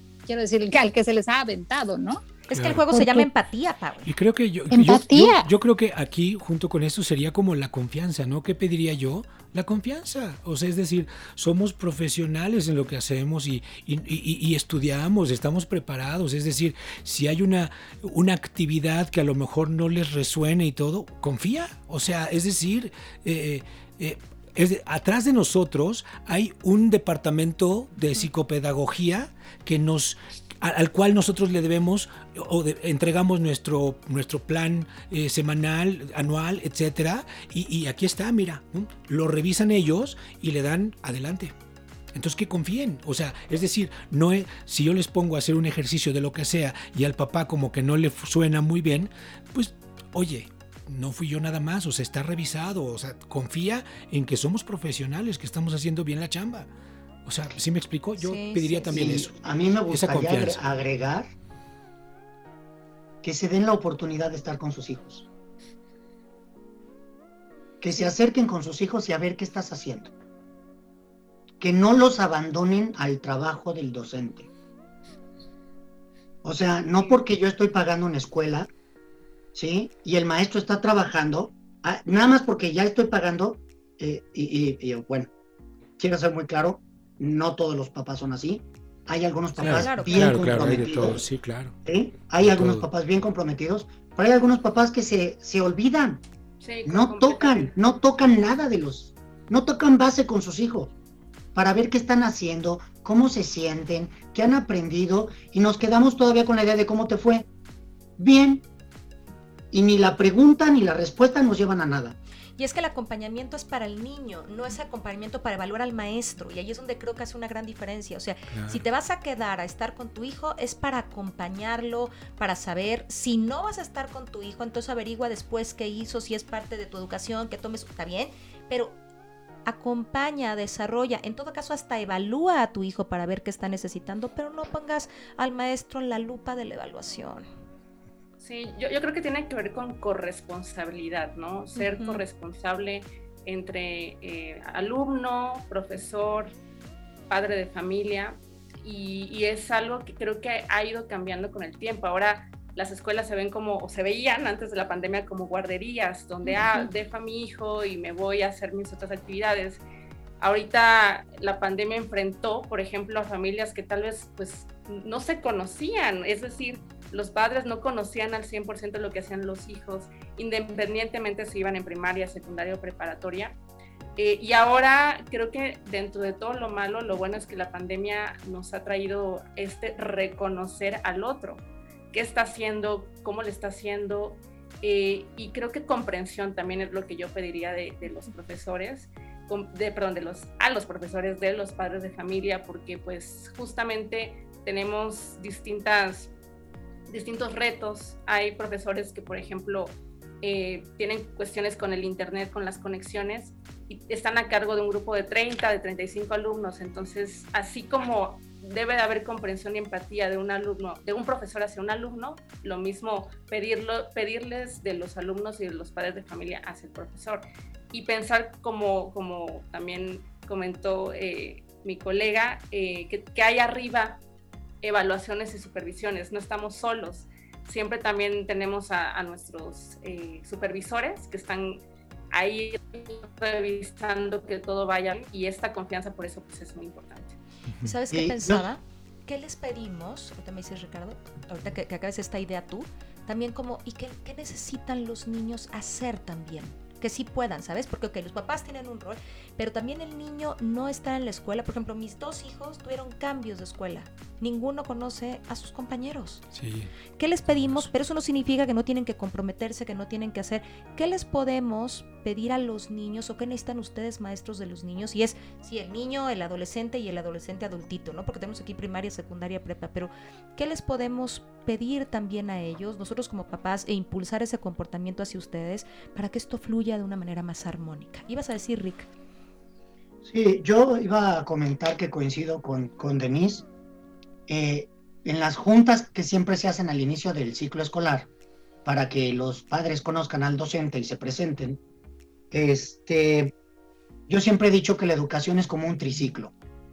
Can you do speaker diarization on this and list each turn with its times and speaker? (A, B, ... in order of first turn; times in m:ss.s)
0:00.3-0:02.3 A
0:02.5-0:04.1 B
0:02.5-0:02.9 C
0:02.9-0:03.3 A
0:04.1-0:41.5 C
0:04.7-0:05.5 A
0:42.1-0:56.7 C
0:57.3-0:59.4 C
0:58.2-0:59.2 B
0:58.9-1:01.3 D
0:59.9-1:00.6 C
1:03.2-1:05.3 D
1:07.8-1:10.1 D
1:11.6-1:14.5 D
1:16.4-1:18.7 D
1:19.6-1:25.3 D
1:26.0-1:31.2 D
1:29.6-1:31.8 C
1:29.6-1:30.8 B
1:31.8-1:36.2 D
1:32.4-1:32.9 C
1:36.6-1:37.7 E
1:36.9-1:40.9 D
1:41.6-1:47.5 D
1:48.2-1:48.6 D
1:49.7-1:52.2 D
1:52.6-2:09.0 B
1:58.5-1:58.8 C
2:09.7-2:17.5 B
2:18.4-2:26.5 E
2:21.8-2:22.2 B
2:27.3-2:39.8 E
2:36.5-2:36.9 B
2:40.4-2:53.6 E
2:54.2-3:16.3 E
3:17.1-3:44.2 E
3:44.8-3:57.4 E
3:57.8-4:16.4 B
3:58.1-3:58.6 D
4:16.5-4:16.9 C
4:17.2-4:39.1 B
4:17.5-4:17.9 C
4:40.2-4:43.7 D
4:44.5-4:48.3 D
4:48.8-4:51.8 D
4:52.5-4:53.5 D
4:54.3-4:56.5 D